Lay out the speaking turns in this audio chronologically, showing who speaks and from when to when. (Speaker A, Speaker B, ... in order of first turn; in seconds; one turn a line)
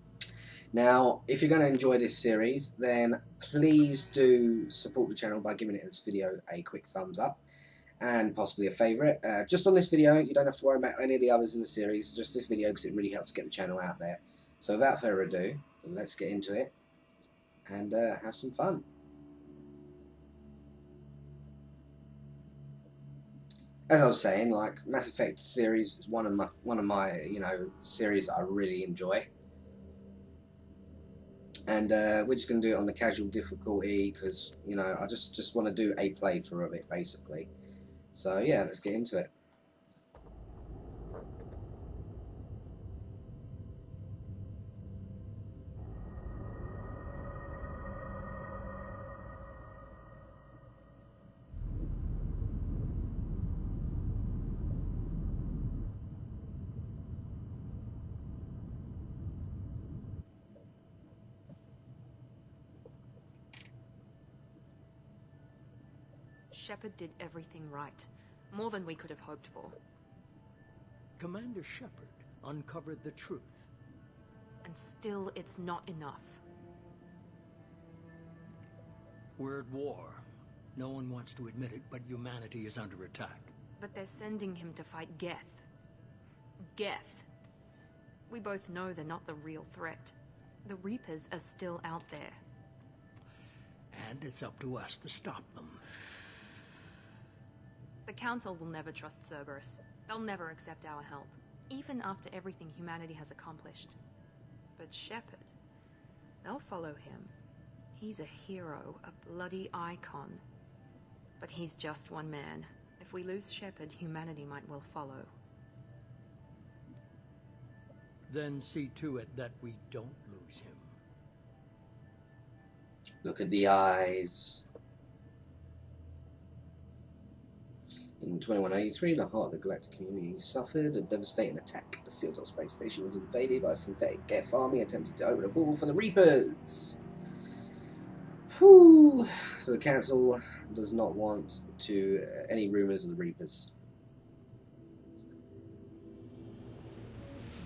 Speaker A: 0.7-7.4
Speaker A: 8.0-16.7
Speaker A: 17.7-18.8
Speaker A: 23.9-29.3
Speaker A: 31.7-37.5
Speaker A: 38.1-39.3
Speaker B: 66.5-69.8
Speaker C: 71.2-73.7
Speaker B: 74.6-76.4
Speaker C: 79.4-83.5
Speaker B: 83.8-85.6
Speaker B: 86.7-87.2
Speaker B: 88.3-92.4
Speaker C: 93.9-95.8
Speaker B: 98.0-104.0
Speaker B: 104.8-105.5
Speaker B: 106.4-107.3
Speaker B: 107.9-110.4
Speaker B: 111.4-115.3
Speaker C: 118.3-121.0
Speaker A: 123.2-124.7
Speaker A: 128.2-137.0
Speaker A: 138.5-143.7